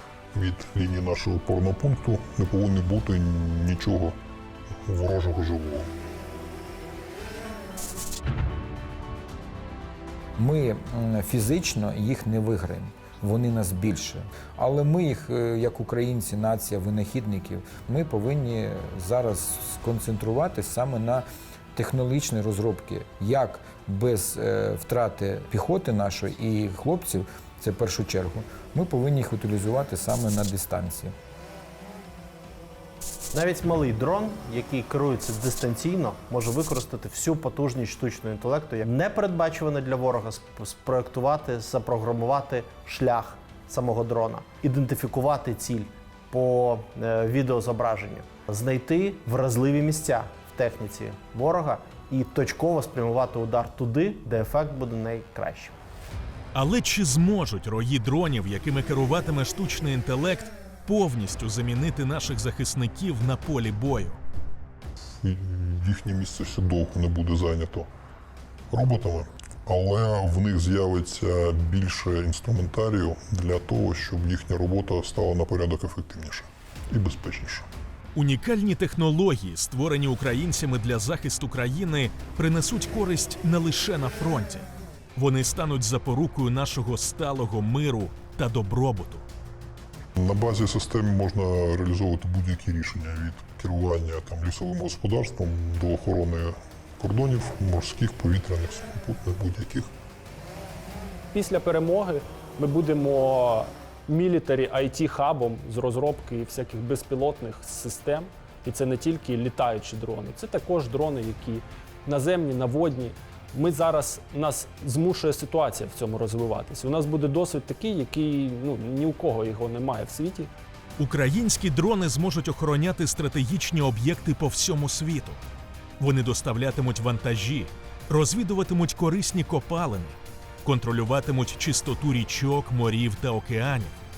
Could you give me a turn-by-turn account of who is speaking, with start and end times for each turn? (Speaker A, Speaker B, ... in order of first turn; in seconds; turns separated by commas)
Speaker A: 0.3-4.1, Speaker A: 4.9-5.9, Speaker B: 10.4-31.1, Speaker C: 33.3-55.7, Speaker D: 56.5-64.2, Speaker A: 65.2-67.9, Speaker A: 68.7-77.7, Speaker D: 78.1-89.2, Speaker A: 90.2-99.9, Speaker E: 101.3-120.5, Speaker D: 121.0-125.4, Speaker D: 126.0-133.9